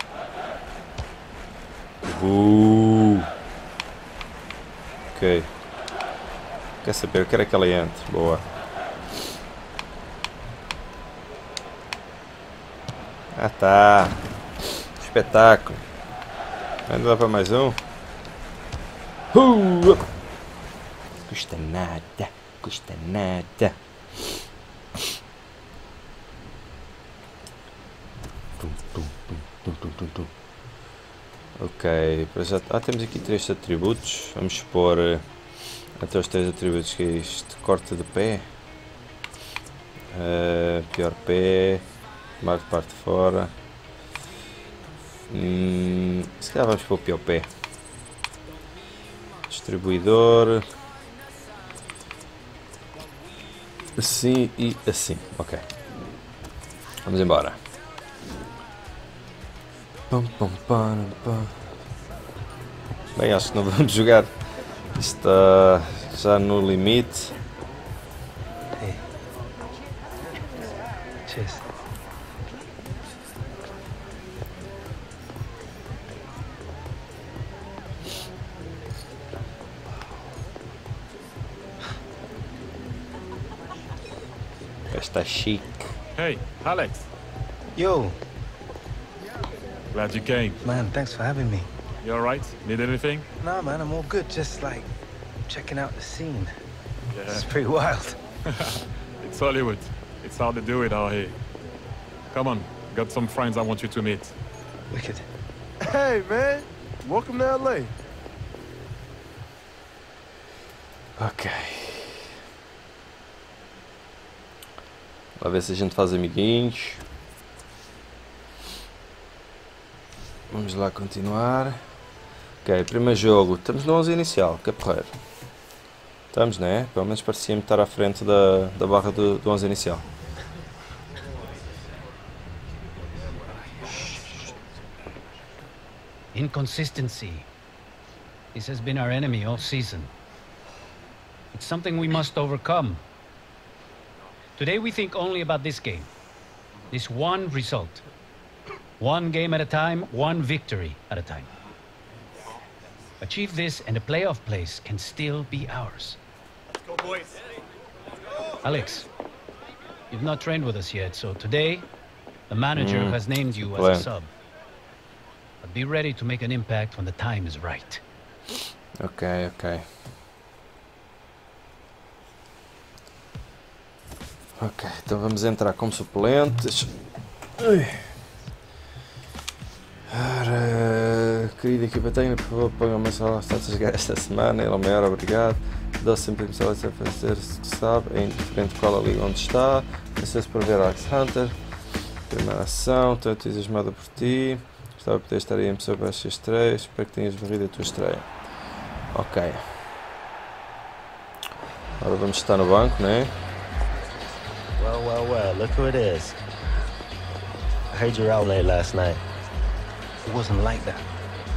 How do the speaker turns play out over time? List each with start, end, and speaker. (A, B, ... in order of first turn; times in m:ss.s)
0:02.0-0:03.3 A
0:05.1-0:05.5 A
0:06.8-0:08.4 A
0:13.3-0:14.2 A
0:15.0-0:15.8 A
0:16.9-0:17.8 A
0:19.3-0:20.0 A
0:21.3-0:24.4 A
0:28.6-0:30.3 A
0:31.6-0:35.2 A
0:36.0-0:38.4 A
0:40.1-0:41.8 A
0:42.4-0:43.5 A
0:45.3-0:47.5 A
0:49.5-0:50.6 A
0:54.0-0:55.6 A
0:57.0-0:57.6 A
1:00.1-1:01.5 A
1:03.1-1:04.3 A
1:04.9-1:07.3 A
1:11.2-1:11.6 B
1:24.9-1:25.9 A
1:26.2-1:27.0 C
1:27.7-1:28.2 B
1:29.9-1:30.6 C
1:30.6-1:31.7 B
1:32.0-1:33.2 C
1:33.4-1:34.9 B
1:35.5-1:36.5 B
1:37.1-1:37.5 C
1:37.3-1:38.2 B
1:38.5-1:41.3 C
1:42.3-1:44.3 C
1:44.9-1:45.2 B
1:45.8-1:47.9 D
1:51.2-1:52.3 A
1:55.4-1:57.0 A
2:00.5-2:01.8 A
2:02.6-2:05.1 A
2:06.3-2:10.0 A
2:16.3-2:17.5 E
2:18.5-2:20.1 E
2:21.5-2:23.0 E
2:24.6-2:26.1 E
2:26.9-2:28.0 E
2:29.0-2:31.5 E
2:33.2-2:36.2 E
2:38.6-2:39.1 E
2:40.1-2:41.9 E
2:42.5-2:44.3 E
2:42.8-2:44.0 A
2:45.6-2:48.0 E
2:49.0-2:49.8 A
2:54.6-2:56.9 A
2:57.6-2:58.0 A
3:00.1-3:11.5 A
3:12.3-3:18.3 A
3:19.1-3:19.7 A
3:22.0-3:23.3 A
3:24.8-3:26.4 F
3:27.9-3:29.2 F
3:30.2-3:31.0 B